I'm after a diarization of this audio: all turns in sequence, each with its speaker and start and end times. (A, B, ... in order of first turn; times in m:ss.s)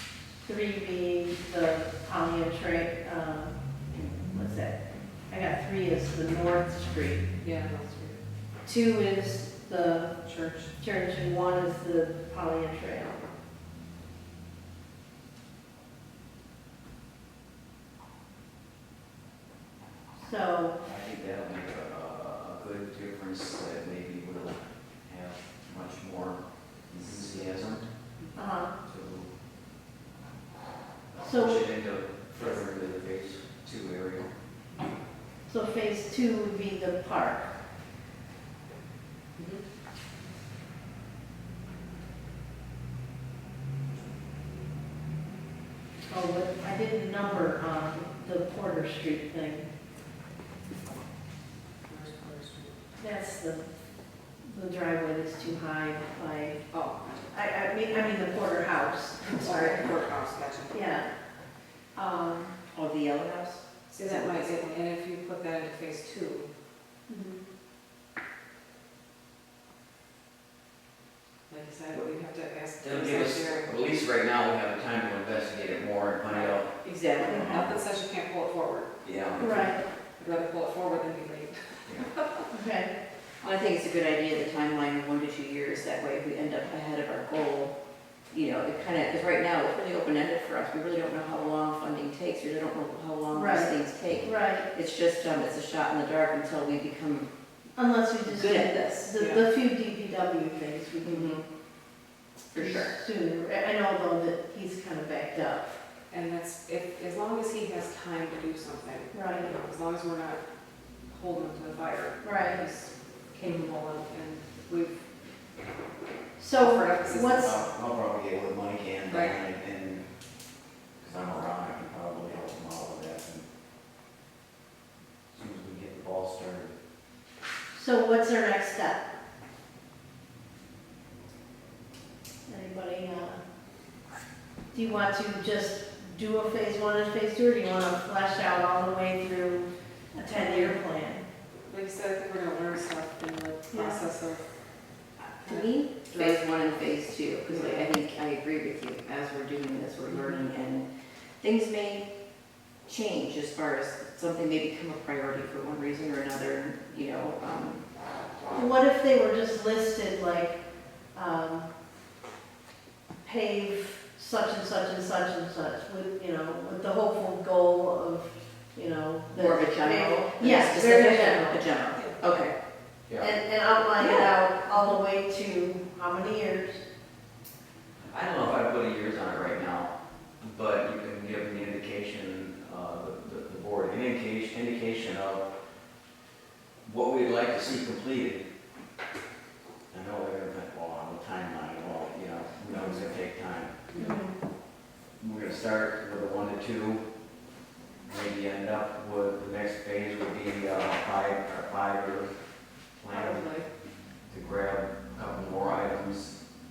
0:00.4-0:04.8 A
0:05.3-0:07.3 A
0:07.4-0:08.2 B
0:08.6-0:10.2 A
0:10.2-0:10.7 B
0:10.8-0:13.2 A
0:20.2-0:20.8 A
0:20.8-0:27.9 C
0:28.4-0:28.7 A
0:28.9-0:29.3 C
0:31.2-0:31.6 A
0:31.3-0:34.3 C
0:35.5-0:37.5 A
0:46.1-0:49.7 A
0:51.9-0:52.8 B
0:53.0-0:53.7 A
0:54.4-0:56.6 A
0:56.7-0:57.2 B
0:57.3-0:59.9 A
0:59.2-1:00.8 B
1:00.7-1:01.1 A
1:01.9-1:02.6 A
1:02.7-1:04.6 D
1:03.9-1:06.5 B
1:07.1-1:07.4 A
1:11.5-1:13.7 B
1:12.8-1:16.7 C
1:16.3-1:16.6 B
1:16.8-1:17.7 D
1:17.2-1:19.7 B
1:17.3-1:17.8 C
1:19.0-1:19.7 C
1:19.4-1:19.8 A
1:20.2-1:22.5 B
1:22.5-1:22.9 A
1:23.4-1:27.8 D
1:28.3-1:37.3 D
1:33.3-1:34.7 A
1:37.8-1:41.4 A
1:38.2-1:39.1 D
1:39.2-1:39.4 B
1:41.0-1:41.4 D
1:42.5-1:42.9 D
1:42.6-1:45.8 A
1:46.1-1:50.4 B
1:49.1-1:49.5 A
1:51.1-1:55.0 B
1:52.2-1:52.6 A
1:56.4-1:57.6 A
1:56.5-1:57.5 B
1:57.1-2:00.0 C
1:59.1-1:59.4 B
2:01.0-2:03.4 C
2:05.3-2:06.8 C
2:07.7-2:09.0 A
2:12.5-2:13.4 A
2:14.7-2:21.2 A
2:21.7-2:24.4 B
2:23.7-2:24.1 A
2:25.2-2:30.9 D
2:25.5-2:26.9 B
2:27.5-2:27.8 B
2:30.1-2:30.4 B
2:31.4-2:32.1 D
2:32.9-2:37.8 D
2:38.5-2:40.6 A
2:41.1-2:41.7 A
2:43.2-2:51.6 A
2:49.3-2:52.5 D
2:53.2-2:56.8 A
2:54.0-2:54.3 D
2:58.1-3:05.4 C
3:06.8-3:08.4 C
3:09.9-3:13.8 C
3:12.7-3:13.0 A
3:13.9-3:14.2 B
3:14.0-3:14.4 A
3:15.2-3:17.0 C
3:18.1-3:22.3 C
3:23.0-3:23.5 C
3:23.1-3:23.7 A
3:24.3-3:26.4 C